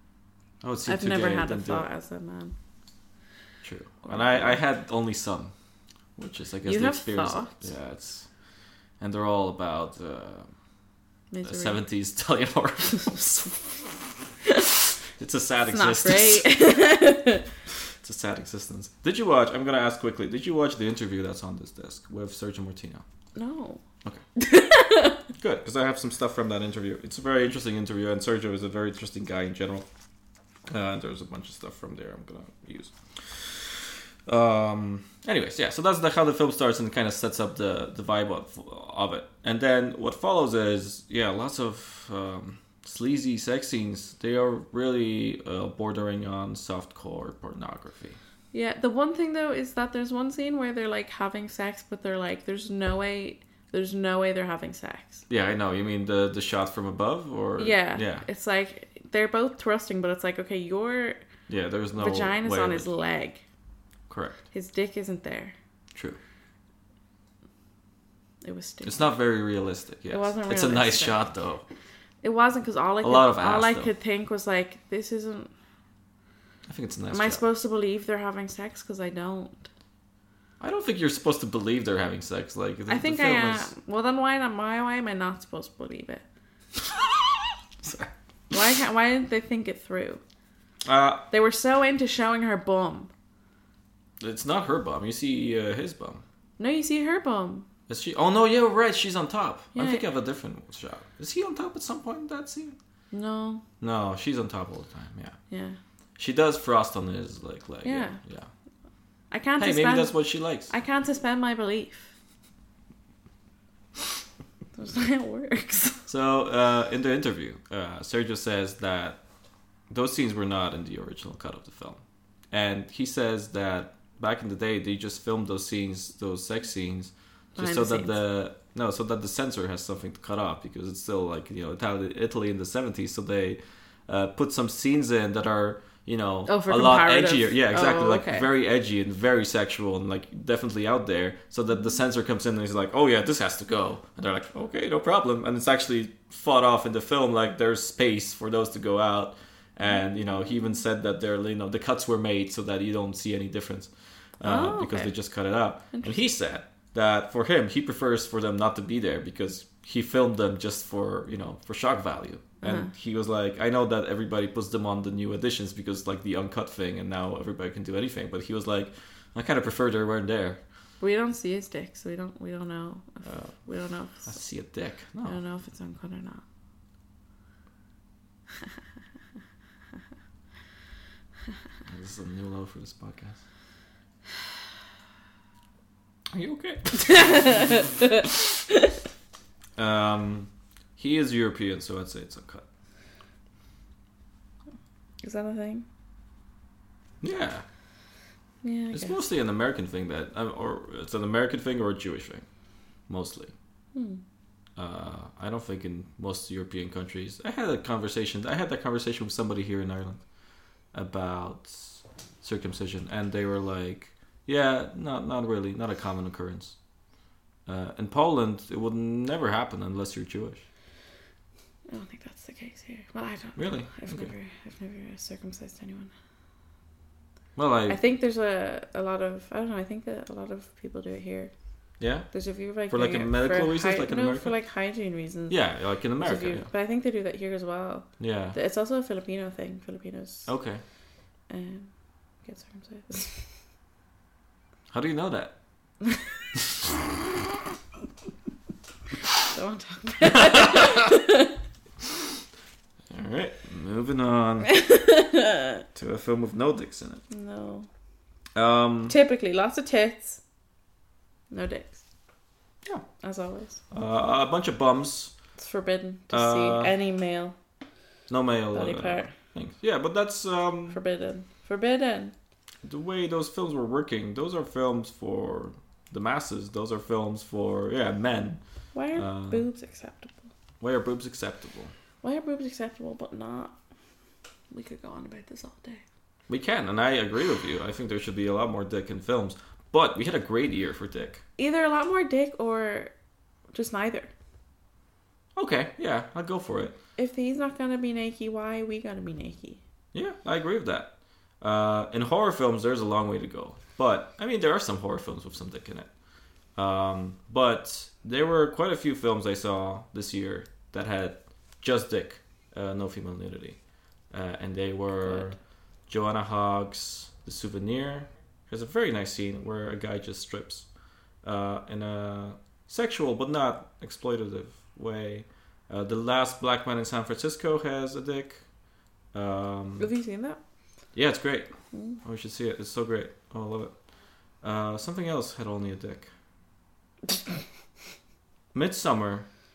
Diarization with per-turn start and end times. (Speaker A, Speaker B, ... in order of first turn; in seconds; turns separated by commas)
Speaker A: 0.6-1.9, Speaker B: 0.9-2.5, Speaker A: 3.6-5.5, Speaker B: 4.1-4.6, Speaker A: 6.2-8.3, Speaker B: 6.7-7.6, Speaker A: 9.0-10.5, Speaker B: 11.3-11.8, Speaker A: 11.4-14.0, Speaker A: 15.2-16.5, Speaker B: 15.7-17.4, Speaker A: 18.0-23.0, Speaker B: 23.4-23.8, Speaker B: 24.4-25.2, Speaker A: 25.4-29.9, Speaker A: 30.7-48.2, Speaker B: 48.5-55.2, Speaker A: 55.3-58.3, Speaker B: 57.6-61.2, Speaker A: 61.5-62.9, Speaker B: 62.0-63.4, Speaker A: 64.1-64.4, Speaker B: 64.5-65.5, Speaker B: 68.4-69.0, Speaker A: 68.8-71.7, Speaker B: 70.1-71.2, Speaker B: 72.2-75.5, Speaker A: 73.0-73.9, Speaker A: 76.7-77.4, Speaker B: 77.1-79.7, Speaker A: 80.6-83.7, Speaker B: 82.9-86.2, Speaker A: 87.8-88.1, Speaker B: 88.5-90.2, Speaker A: 90.8-91.2, Speaker B: 91.3-93.1, Speaker A: 94.2-96.2, Speaker B: 96.6-97.7, Speaker A: 97.9-102.8, Speaker B: 99.8-100.0, Speaker B: 103.1-103.6, Speaker A: 103.8-105.4, Speaker B: 105.5-105.8, Speaker A: 106.2-108.5, Speaker B: 107.8-108.2, Speaker B: 109.3-110.2, Speaker A: 109.6-110.7, Speaker B: 110.7-112.1, Speaker B: 114.8-116.0, Speaker A: 116.1-119.2, Speaker A: 119.9-170.6, Speaker B: 127.6-128.2, Speaker B: 136.5-138.5, Speaker B: 154.4-155.1, Speaker B: 155.9-156.2, Speaker B: 162.6-162.9, Speaker B: 171.0-174.4, Speaker A: 173.2-173.6, Speaker A: 174.2-175.4, Speaker B: 175.2-176.4, Speaker A: 181.9-183.4, Speaker A: 186.3-187.9, Speaker B: 187.1-188.2, Speaker A: 189.8-192.7, Speaker B: 195.2-195.9, Speaker A: 197.2-197.6, Speaker B: 198.6-199.2, Speaker A: 198.9-202.5, Speaker A: 203.1-203.5, Speaker B: 203.9-204.2, Speaker A: 204.8-210.2, Speaker A: 210.9-216.8, Speaker A: 217.7-220.7, Speaker B: 221.9-226.1, Speaker A: 223.6-224.3, Speaker A: 227.6-228.0, Speaker B: 227.9-231.5, Speaker A: 232.0-232.3, Speaker B: 232.3-235.6, Speaker A: 232.9-234.5, Speaker A: 235.5-236.7, Speaker B: 236.2-240.5, Speaker A: 238.2-238.6, Speaker A: 240.5-240.8, Speaker B: 241.5-241.9, Speaker B: 242.4-243.4, Speaker A: 244.9-245.6, Speaker A: 246.6-246.9, Speaker B: 249.5-251.6, Speaker A: 250.2-251.1, Speaker A: 253.1-254.7, Speaker B: 254.7-255.8, Speaker A: 255.9-257.2, Speaker B: 257.3-257.9, Speaker A: 258.6-259.2, Speaker B: 259.1-260.4, Speaker B: 261.5-262.0, Speaker B: 263.2-263.8, Speaker A: 263.9-265.4, Speaker B: 265.6-267.6, Speaker A: 266.3-266.9, Speaker A: 268.3-271.0, Speaker B: 268.7-269.3, Speaker B: 270.9-272.3, Speaker A: 272.8-278.6, Speaker B: 278.9-280.5, Speaker A: 279.2-279.6, Speaker A: 280.8-281.9, Speaker B: 282.2-283.8, Speaker B: 284.7-286.0, Speaker A: 286.5-291.4, Speaker B: 291.6-293.1, Speaker B: 293.7-294.3, Speaker A: 295.6-297.0, Speaker B: 297.2-299.8, Speaker A: 300.1-306.1, Speaker A: 306.8-313.8, Speaker A: 314.3-315.6, Speaker B: 315.3-315.5, Speaker A: 316.1-320.9, Speaker A: 321.4-328.6, Speaker A: 329.3-330.1, Speaker B: 330.0-330.6, Speaker A: 331.1-331.7, Speaker B: 331.9-332.2, Speaker A: 332.2-333.9, Speaker A: 334.6-336.3, Speaker A: 338.7-339.5